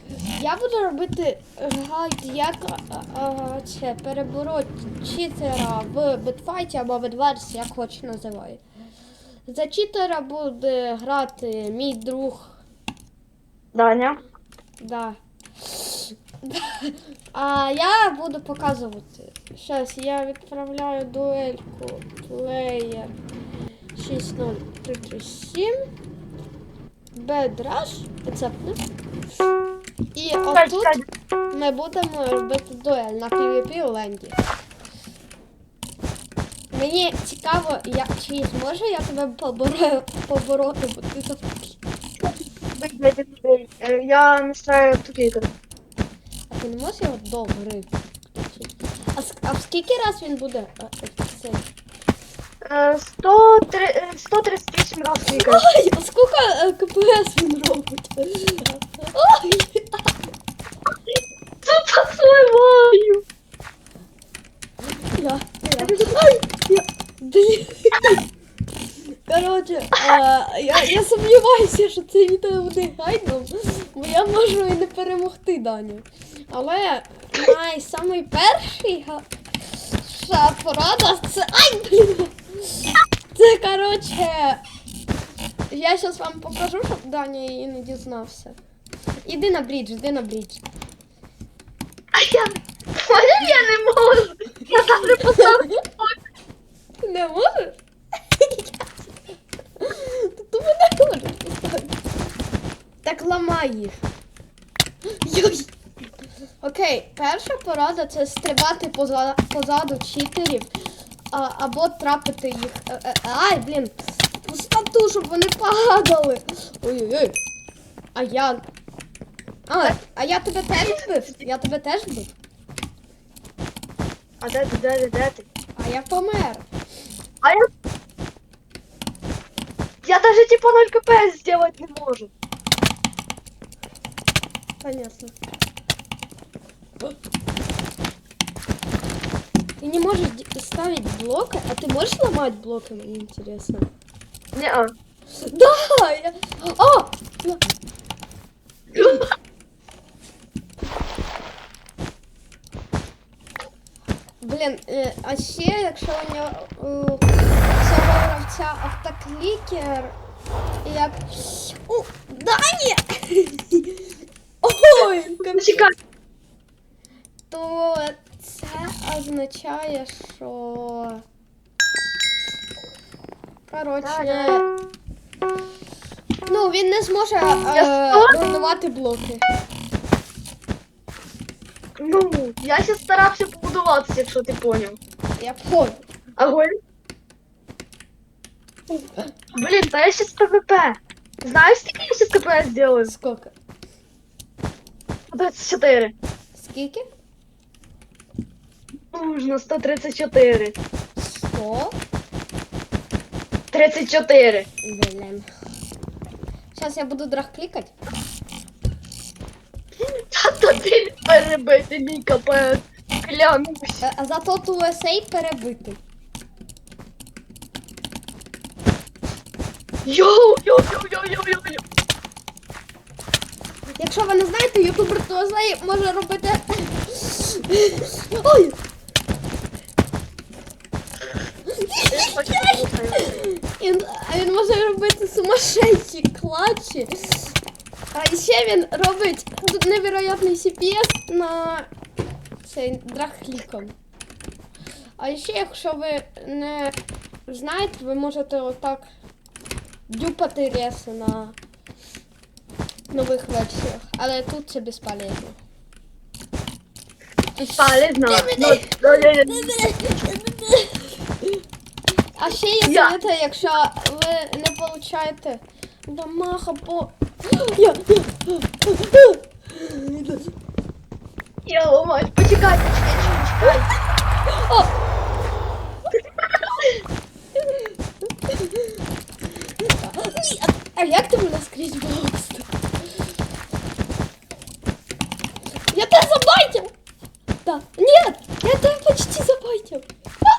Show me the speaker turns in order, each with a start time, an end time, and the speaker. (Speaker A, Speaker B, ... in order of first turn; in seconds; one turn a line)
Speaker A: 0.3-8.6
Speaker A: 9.5-12.6
Speaker B: 13.7-14.2
Speaker A: 14.8-23.1
Speaker A: 23.9-25.8
Speaker A: 27.1-28.8
Speaker A: 30.1-30.9
Speaker B: 30.5-31.1
Speaker A: 31.5-34.4
Speaker A: 36.7-41.8
Speaker B: 42.2-45.5
Speaker A: 46.5-51.7
Speaker B: 52.6-55.6
Speaker A: 55.3-60.1
Speaker B: 61.6-63.2
Speaker A: 65.2-68.2
Speaker B: 65.8-66.2
Speaker A: 69.3-84.6
Speaker A: 85.7-88.6
Speaker A: 89.2-90.6
Speaker B: 92.2-96.2
Speaker A: 95.3-95.8
Speaker A: 97.0-97.8
Speaker A: 98.4-99.1
Speaker A: 99.8-102.0
Speaker A: 103.0-104.0
Speaker A: 105.2-105.7
Speaker A: 106.6-110.7
Speaker A: 111.3-117.4
Speaker A: 118.2-118.6
Speaker A: 119.7-122.3
Speaker B: 124.4-125.5
Speaker A: 125.8-126.7
Speaker B: 127.4-127.7
Speaker B: 130.0-132.3
Speaker A: 134.8-135.3
Speaker A: 139.8-143.9
Speaker B: 144.5-144.9
Speaker A: 145.4-147.7
Speaker B: 148.9-149.3
Speaker A: 154.4-157.3
Speaker A: 157.8-160.1
Speaker A: 160.8-164.1
Speaker A: 164.6-165.9
Speaker B: 165.6-165.9
Speaker A: 167.5-171.2
Speaker A: 173.7-174.7
Speaker B: 174.0-174.6
Speaker A: 176.5-179.4
Speaker B: 177.7-178.4
Speaker B: 182.0-185.0
Speaker A: 185.4-186.0
Speaker B: 186.4-186.7
Speaker B: 189.5-193.1
Speaker A: 193.1-193.5
Speaker B: 195.3-196.2
Speaker A: 196.6-197.1
Speaker B: 199.1-200.8
Speaker A: 201.2-202.0
Speaker B: 203.7-204.7
Speaker A: 204.8-205.5
Speaker A: 206.7-207.9
Speaker B: 210.2-214.0
Speaker A: 214.0-216.0
Speaker B: 220.1-221.8
Speaker A: 224.0-228.8
Speaker A: 231.8-237.6
Speaker B: 232.1-233.4
Speaker A: 238.1-241.9
Speaker A: 242.6-243.9
Speaker A: 245.2-247.0
Speaker A: 247.5-249.1
Speaker A: 250.1-251.6
Speaker A: 253.1-255.6
Speaker B: 257.6-259.7
Speaker A: 258.2-261.6
Speaker A: 262.4-270.5
Speaker B: 262.9-263.1
Speaker B: 271.7-273.9
Speaker A: 274.5-274.9
Speaker B: 276.2-276.9
Speaker A: 277.6-277.9
Speaker A: 278.5-279.0
Speaker A: 279.8-282.7
Speaker A: 285.9-286.9
Speaker A: 287.6-290.1